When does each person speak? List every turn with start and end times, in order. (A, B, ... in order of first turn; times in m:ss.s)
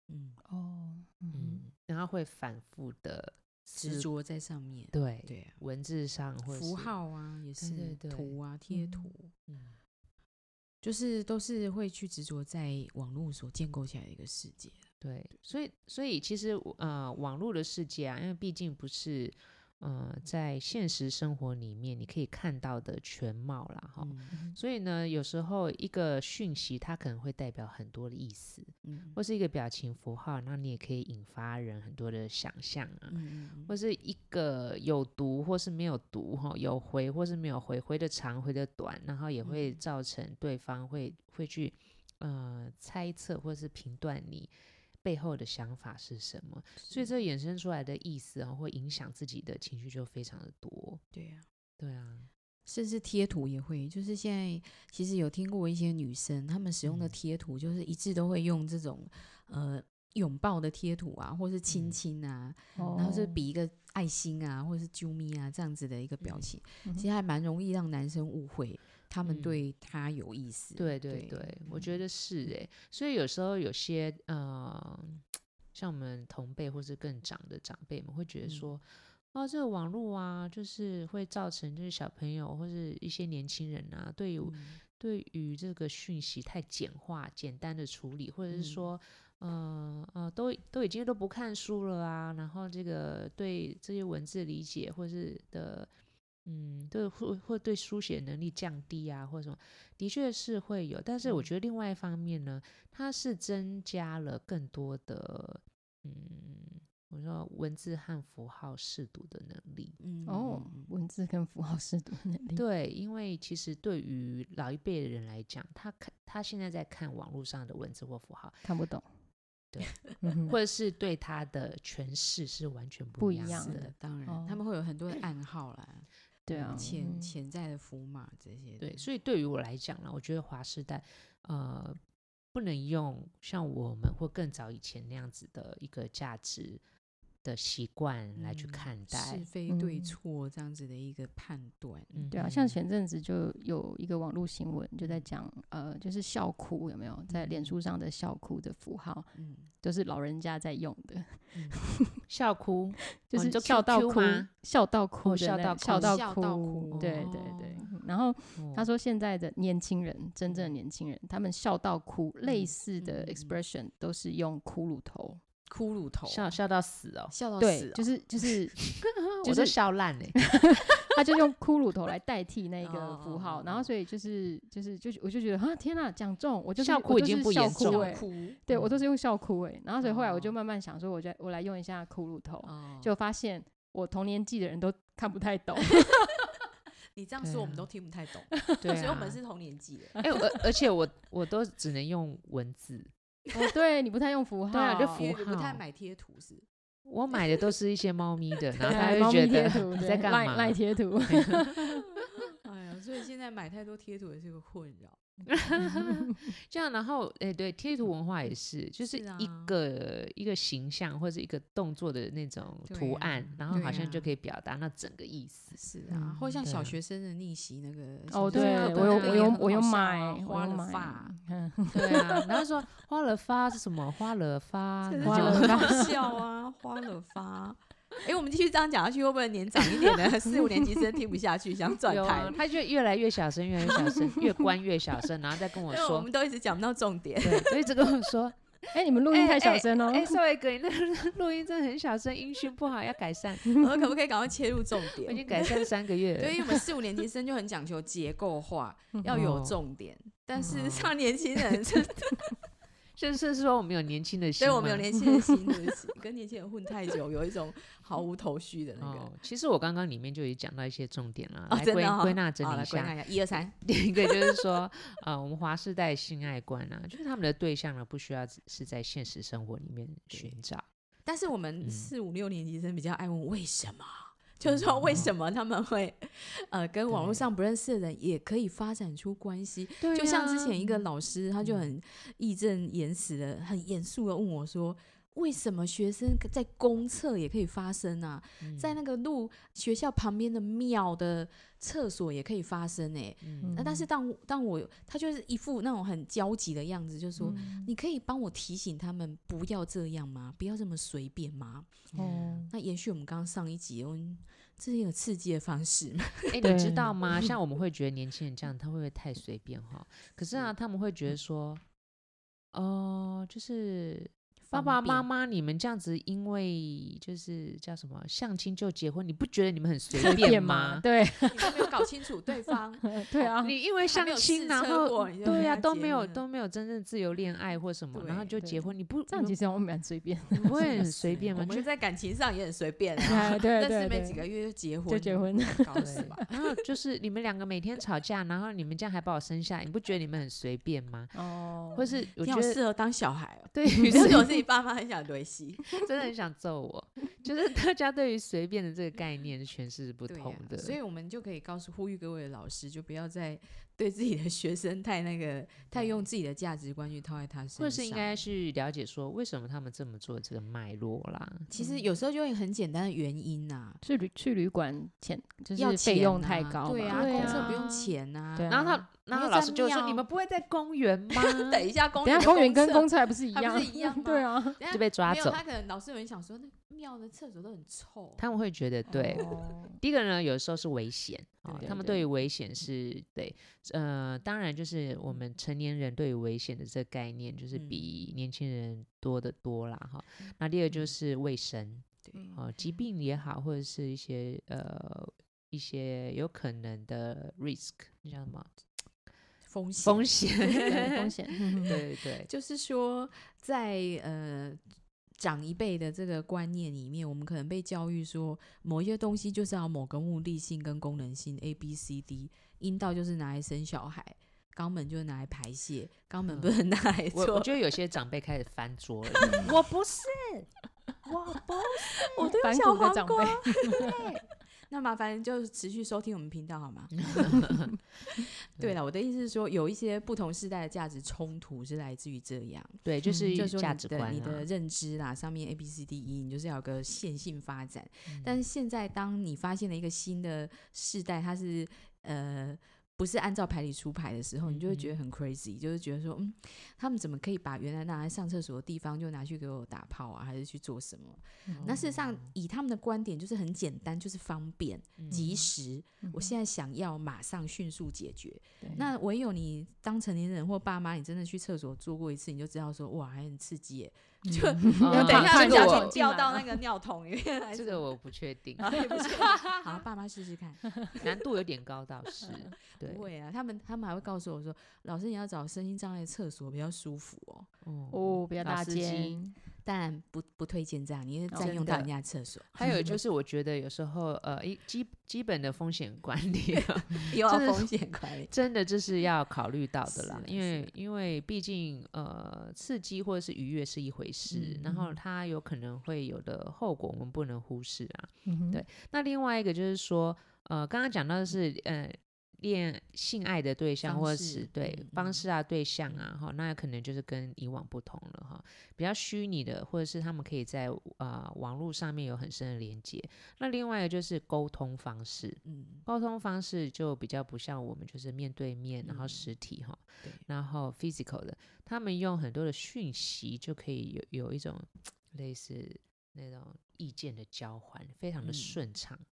0:00.1-0:00.4 A
0:00.4-0:01.6 B
0:01.3-0:04.1 C
0:03.8-0:05.6 A
0:04.9-0:06.9 C
0:06.4-0:09.3 A
0:07.6-0:08.3 C
0:08.7-0:09.1 B
0:09.5-0:09.8 C
0:10.8-0:14.9 A
0:15.0-0:51.0 C
0:24.0-0:24.4 A
0:24.3-0:24.6 B
0:28.8-0:29.2 A
0:33.1-0:33.7 A
0:39.4-0:39.8 A
0:46.8-0:47.1 A
0:51.1-0:51.4 A
0:51.8-0:52.3 C
0:52.6-1:11.9 A
0:56.8-0:57.1 C
1:01.7-1:02.0 C
1:02.8-1:03.2 C
1:02.8-1:03.4 B
1:06.2-1:06.6 C
1:09.2-1:09.6 C
1:10.8-1:35.9 C
1:18.4-1:18.7 A
1:24.4-1:24.8 A
1:28.5-1:28.8 A
1:36.4-1:50.0 C
1:50.0-1:50.9 A
1:50.2-1:52.6 B
1:52.6-1:58.6 C
1:58.6-1:59.1 B
1:59.7-2:03.9 C
2:00.2-2:00.5 B
2:03.2-2:04.6 B
2:03.5-2:06.1 A
2:06.5-2:07.3 B
2:06.5-2:06.9 C
2:06.6-2:09.1 A
2:08.8-2:12.0 C
2:12.5-2:16.8 C
2:17.4-2:19.5 C
2:18.4-2:22.3 A
2:19.7-2:20.2 B
2:22.1-2:22.8 C
2:22.3-2:32.2 B
2:27.3-2:27.7 A
2:29.3-2:29.7 A
2:32.3-2:34.5 C
2:33.2-2:45.4 B
2:35.2-2:36.2 C
2:35.9-2:37.8 A
2:36.9-2:37.3 C
2:38.6-2:38.9 C
2:42.4-2:43.6 A
2:45.7-2:46.5 A
2:46.3-2:47.3 C
2:47.3-2:48.1 A
2:47.6-2:48.9 B
2:49.0-2:50.8 C
2:49.4-2:49.7 B
2:50.3-3:06.3 B
2:52.8-2:53.8 A
2:56.8-2:58.1 C
2:57.8-2:58.6 A
2:58.7-2:59.0 C
3:00.0-3:00.5 A
3:02.6-3:03.1 A
3:07.2-3:10.2 A
3:07.4-3:07.9 C
3:08.5-3:08.9 B
3:08.8-3:09.4 C
3:10.2-3:13.1 C
3:10.2-3:10.5 B
3:13.5-3:15.3 B
3:14.7-3:15.8 C
3:15.0-3:16.6 A
3:17.0-3:22.2 C
3:18.7-3:19.2 A
3:18.9-3:22.0 B
3:22.6-3:25.2 A
3:25.5-3:35.8 C
3:25.9-3:26.3 B
3:29.1-3:29.7 A
3:32.9-3:34.3 A
3:35.7-3:41.4 A
3:36.1-3:36.6 B
3:36.6-3:37.0 C
3:38.3-3:42.5 B
3:38.5-3:39.6 C
3:41.9-3:46.1 C
3:45.0-3:52.6 A
3:45.2-3:46.1 B
3:52.1-3:56.3 C
3:55.9-3:57.8 A
3:57.4-4:03.8 C
3:58.9-4:00.4 B
4:03.6-4:05.8 A
4:05.2-4:06.8 C
4:06.4-4:12.5 A
4:09.2-4:09.4 B
4:09.3-4:09.8 C
4:10.6-4:11.1 C
4:13.2-4:15.1 C
4:14.6-4:19.3 A
4:19.0-4:30.8 C
4:21.7-4:24.6 A
4:30.3-4:30.6 A
4:31.2-5:02.1 A
4:31.8-4:32.1 C
4:34.6-4:35.3 C
4:37.1-4:37.5 C
4:40.0-4:41.0 C
4:41.6-4:41.9 C
4:48.6-4:49.0 C
4:53.4-4:53.8 C
4:53.6-4:54.1 B
4:57.4-4:57.7 C
4:57.4-4:57.9 B
5:02.1-5:02.7 C
5:02.1-5:02.7 B
5:02.7-5:06.6 A
5:06.5-5:11.8 C
5:06.6-5:07.2 B
5:12.7-5:21.0 C
5:14.7-5:15.2 A
5:20.1-5:22.0 B
5:21.5-5:23.5 A
5:23.0-5:23.7 B
5:23.6-5:29.6 C
5:24.0-5:26.4 A
5:25.4-5:25.8 B
5:28.1-5:28.6 A
5:28.6-5:31.4 B
5:30.5-5:36.6 A
5:30.6-5:31.9 C
5:33.2-5:34.4 B
5:35.1-5:36.4 B
5:36.0-5:42.8 C
5:41.3-5:42.1 B
5:42.4-5:46.0 A
5:43.7-5:44.5 C
5:45.9-5:51.0 C
5:50.3-5:58.4 A
5:55.9-5:56.2 C
5:57.8-6:01.7 C
6:01.7-6:04.0 A
6:01.8-6:02.0 B
6:04.0-6:07.8 B
6:05.8-6:10.2 A
6:07.1-6:08.1 C
6:08.6-6:09.0 B
6:08.7-6:11.8 C
6:11.3-6:18.4 A
6:12.2-6:14.8 B
6:14.9-6:15.6 C
6:18.4-6:38.7 C
6:19.1-6:20.0 B
6:21.6-6:22.2 A
6:27.7-6:28.0 A
6:30.4-6:31.1 A
6:32.2-6:32.5 A
6:32.3-6:32.6 B
6:39.6-6:41.2 A
6:40.0-6:42.5 C
6:40.8-6:42.0 B
6:41.8-6:44.8 A
6:45.4-6:57.7 A
6:56.5-6:56.8 C
6:57.3-7:00.7 C
6:59.4-6:59.7 A
7:01.2-7:02.5 C
7:02.2-7:04.3 A
7:02.4-7:04.2 B
7:04.0-7:04.4 C
7:04.9-7:48.1 A
7:07.3-7:07.9 C
7:13.0-7:14.7 C
7:13.3-7:13.6 B
7:18.3-7:18.6 C
7:24.6-7:25.2 C
7:31.6-7:31.9 B
7:31.7-7:32.5 C
7:35.2-7:35.4 C
7:35.3-7:35.7 B
7:36.2-7:36.5 B
7:44.5-7:46.6 B
7:45.0-7:46.2 C
7:47.7-7:50.0 C
7:48.8-7:51.2 A
7:51.1-7:53.3 C
7:52.4-7:52.7 B
7:52.9-7:57.7 A
7:57.8-7:59.4 C
7:58.1-7:59.6 B
7:59.8-8:03.2 A
8:01.5-8:02.1 C
8:01.6-8:02.1 B
8:02.7-8:49.2 C
8:06.8-8:08.5 A
8:10.0-8:10.9 A
8:14.5-8:15.1 A
8:18.4-8:18.8 B
8:24.0-8:25.4 A
8:35.6-8:36.0 A
8:39.0-8:39.5 A
8:48.4-8:48.8 A